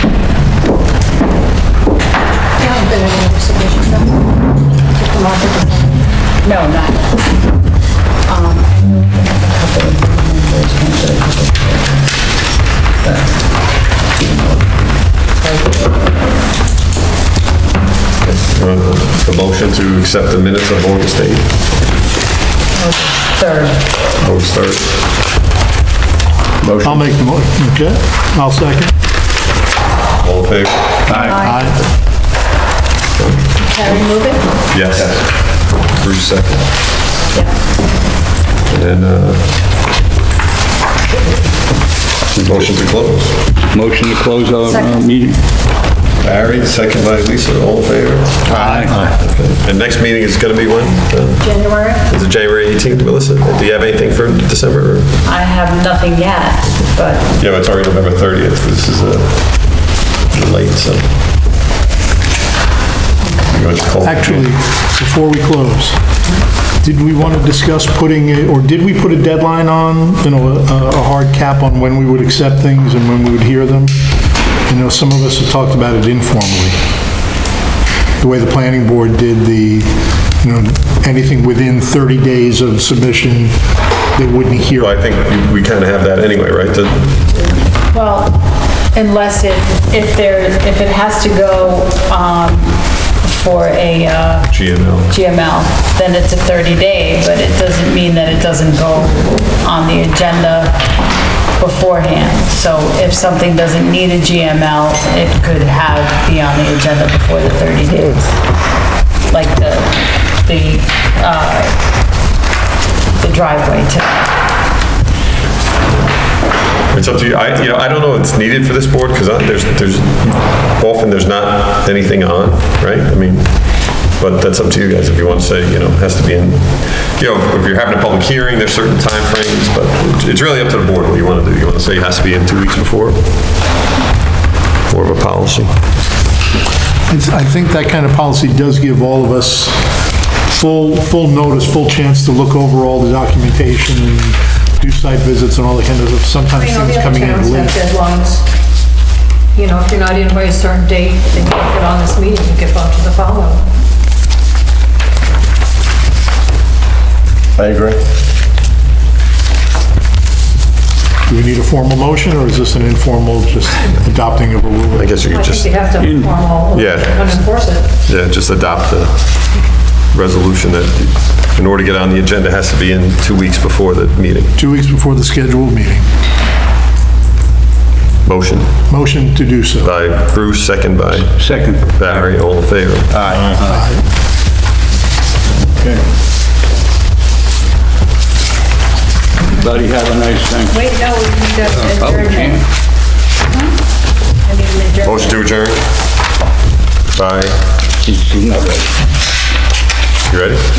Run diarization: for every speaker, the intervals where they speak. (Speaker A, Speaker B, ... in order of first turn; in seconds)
Speaker A: 2.6-4.2, 4.9-6.1, 33.6-34.5, 44.6-45.0, 51.4-52.1, 146.5-148.5, 149.5-153.7, 165.2-167.9, 190.7-192.7, 194.4-195.3
Speaker B: 6.4-7.3, 8.2-12.2, 13.0-14.8, 15.4-15.9, 22.7-23.8, 55.2-57.2, 63.2-63.5, 87.9-100.9, 101.5-108.4, 109.3-111.8, 113.1-114.3
Speaker C: 18.2-21.6, 24.2-24.9, 30.2-31.4, 33.1-33.4, 34.7-36.7, 38.7-39.5, 42.3-43.4, 46.2-51.5, 52.0-55.1, 57.4-61.1, 63.5-64.5, 84.8-87.4, 94.5-95.1, 116.9-133.2, 134.9-135.8, 157.6-158.0, 164.9-165.7, 166.7-167.3, 168.0-169.4, 170.1-174.5, 178.2-178.7, 179.8-181.3, 181.9-183.2, 195.0-195.8, 197.1-197.6, 200.3-200.6
Speaker D: 26.6-27.0, 31.1-31.4, 43.7-45.4, 48.5-49.0, 166.0-166.3, 181.3-182.3, 183.1-183.8, 189.5-190.8, 191.7-192.6, 198.0-198.9
Speaker E: 26.8-28.9, 31.3-31.8, 48.6-49.1, 64.0-66.0, 66.8-74.1, 74.7-76.8, 78.2-83.6, 84.1-84.9, 137.1-139.9, 140.5-147.8, 161.3-165.1, 174.6-176.1, 178.9-179.9, 183.5-184.0